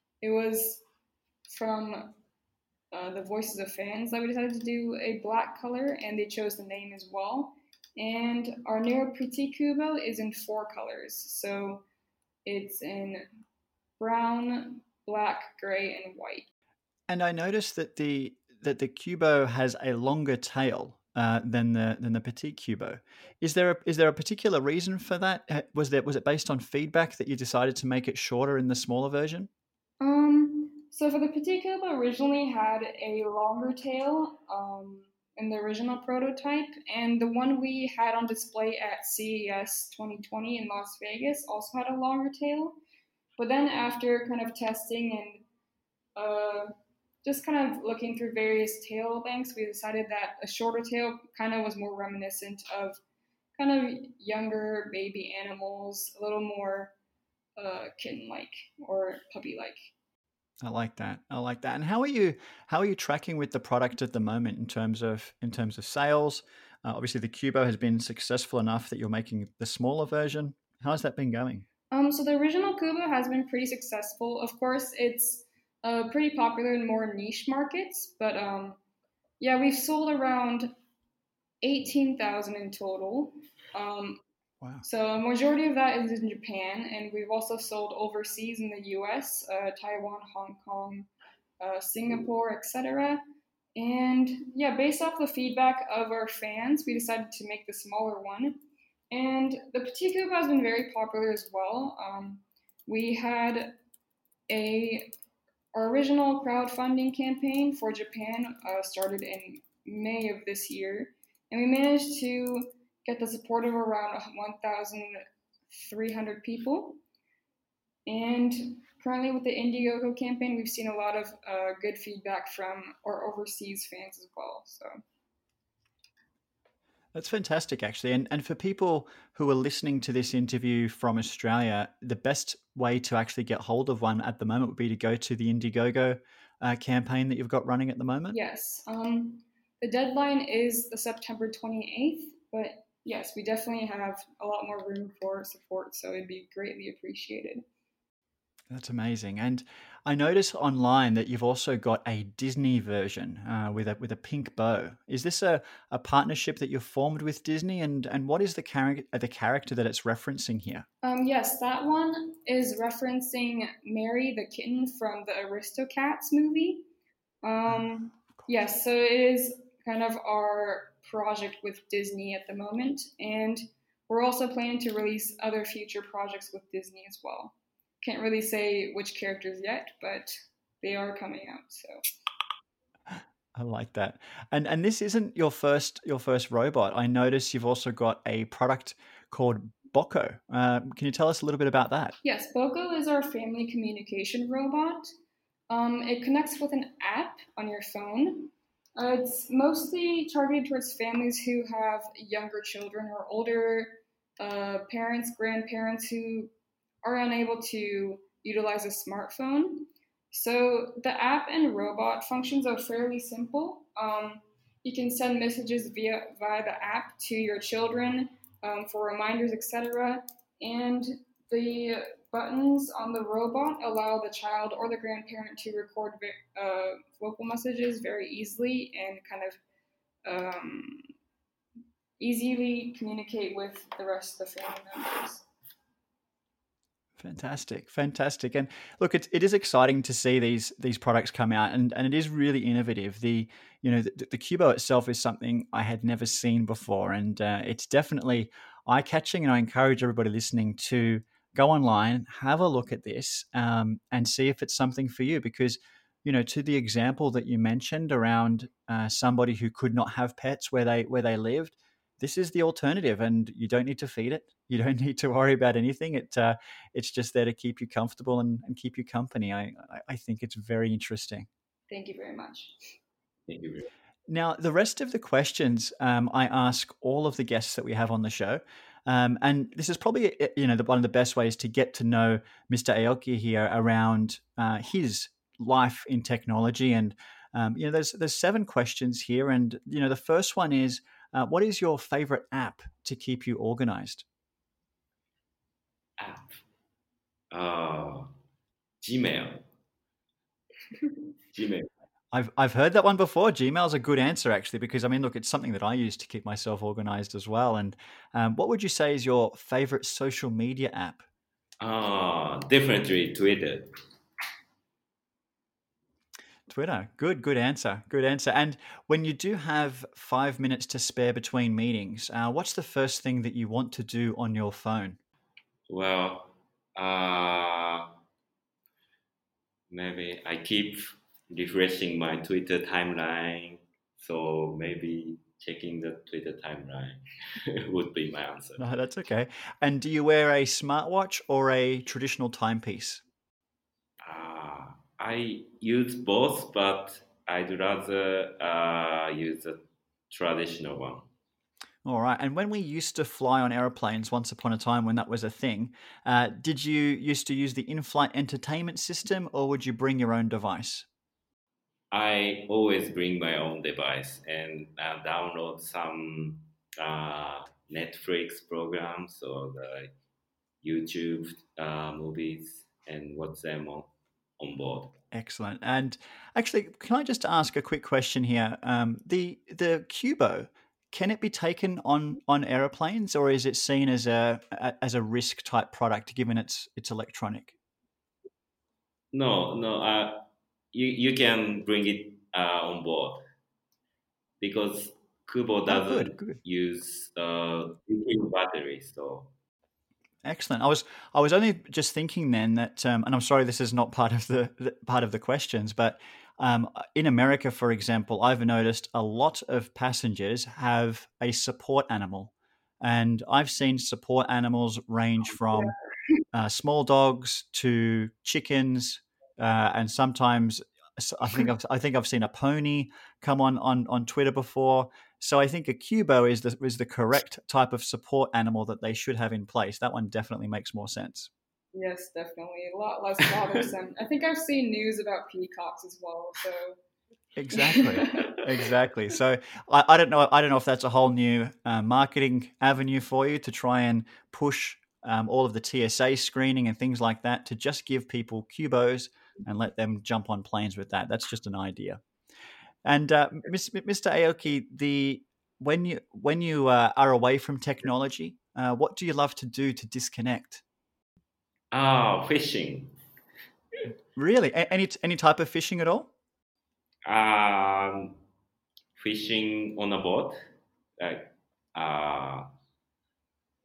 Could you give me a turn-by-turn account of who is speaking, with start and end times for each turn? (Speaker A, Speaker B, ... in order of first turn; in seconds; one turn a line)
Speaker A: 0.2-0.8
Speaker A: 1.5-2.1
Speaker A: 2.9-11.8
Speaker A: 12.4-13.3
Speaker A: 14.0-16.5
Speaker B: 17.1-29.5
Speaker A: 30.0-42.8
Speaker A: 43.4-45.4
Speaker A: 46.1-46.7
Speaker A: 47.2-53.0
Speaker A: 53.6-56.9
Speaker A: 57.6-59.9
Speaker B: 60.6-71.6
Speaker A: 71.9-78.8
Speaker A: 79.4-80.7
Speaker A: 81.6-84.2
Speaker A: 84.8-91.1
Speaker A: 91.6-93.2
Speaker A: 93.8-98.6
Speaker A: 99.1-103.8
Speaker A: 104.5-105.1
Speaker A: 105.7-117.0
Speaker A: 118.0-124.9
Speaker B: 127.1-138.4
Speaker A: 138.3-147.6
Speaker B: 148.7-160.8
Speaker A: 161.0-166.8
Speaker A: 167.4-182.0
Speaker B: 183.6-192.2
Speaker A: 192.2-195.1
Speaker A: 195.7-206.5
Speaker A: 207.0-229.6
Speaker A: 230.2-231.1
Speaker A: 232.2-235.4
Speaker B: 237.2-271.5
Speaker A: 271.9-272.9
Speaker C: 273.5-273.9
Speaker B: 274.3-294.2
Speaker C: 296.2-296.6
Speaker C: 297.5-298.3
Speaker C: 299.0-299.6
Speaker C: 301.5-301.9
Speaker B: 302.3-311.2
Speaker C: 311.8-313.9
Speaker B: 316.7-325.2
Speaker C: 325.9-328.1
Speaker C: 329.9-338.8
Speaker B: 338.8-343.2
Speaker C: 344.2-351.3
Speaker B: 352.0-361.1
Speaker C: 362.1-370.1
Speaker C: 370.8-375.1
Speaker B: 375.3-387.7
Speaker C: 389.3-393.4
Speaker C: 394.6-399.5
Speaker B: 395.9-396.6
Speaker B: 400.4-415.9
Speaker B: 416.5-431.5
Speaker A: 431.9-437.0
Speaker B: 437.6-452.2
Speaker A: 437.7-438.6
Speaker B: 453.0-460.8
Speaker C: 461.9-463.1
Speaker B: 464.4-466.3
Speaker C: 467.2-468.4
Speaker C: 469.1-470.6
Speaker C: 471.2-472.7